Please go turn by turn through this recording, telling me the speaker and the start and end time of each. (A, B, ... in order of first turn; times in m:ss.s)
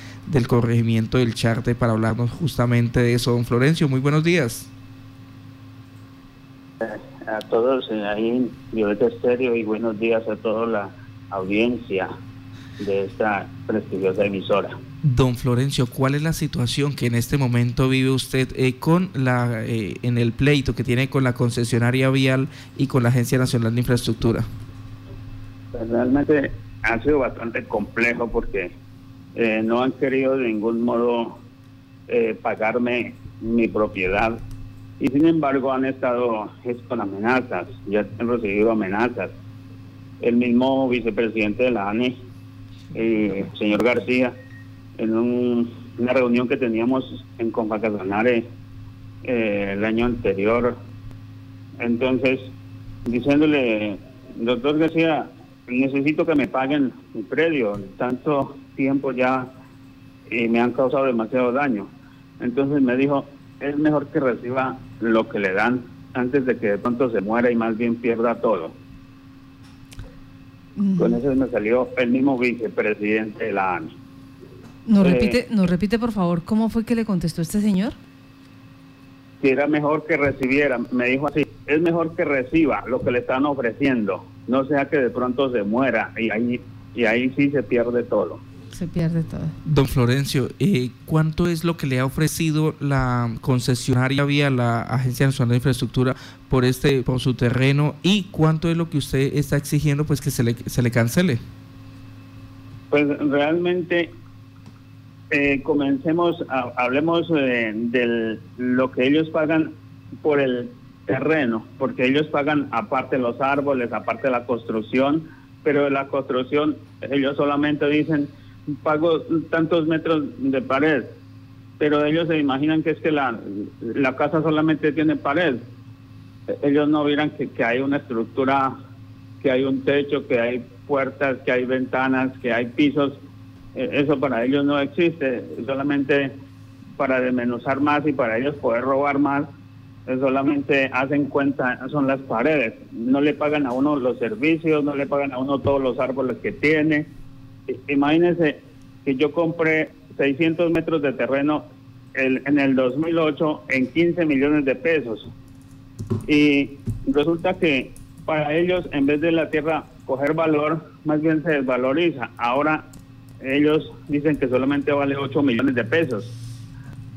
0:00.3-0:04.7 A
0:06.8-0:12.1 B
0:12.8-0:14.7 B
0:15.0-0:24.5 A
0:25.7-0:28.7 B
0:29.4-0:31.4 B
0:32.1-0:34.4 B
0:35.0-0:39.4 B
0:40.2-0:42.2 B
0:42.9-0:44.4 B
0:45.0-0:48.4 B
0:49.2-0:50.8 B
0:51.8-0:52.5 B
0:53.1-0:59.5 B
1:00.3-1:08.8 B
1:10.8-1:11.2 C
1:11.0-1:13.9 B
1:14.9-1:18.0 C
1:15.0-1:15.4 B
1:19.4-1:28.4 B
1:28.7-1:29.6 C
1:29.6-1:41.4 A
1:42.9-1:44.1 B
1:45.3-2:01.1 B
2:01.8-2:05.6 B
2:06.5-2:08.7 B
2:09.4-2:13.2 B
2:13.8-2:16.3 B
2:17.0-2:19.5 B
2:20.1-2:27.1 B
2:27.7-2:31.6 B
2:32.2-2:35.3 B
2:36.3-2:42.8 B
2:43.4-2:46.3 B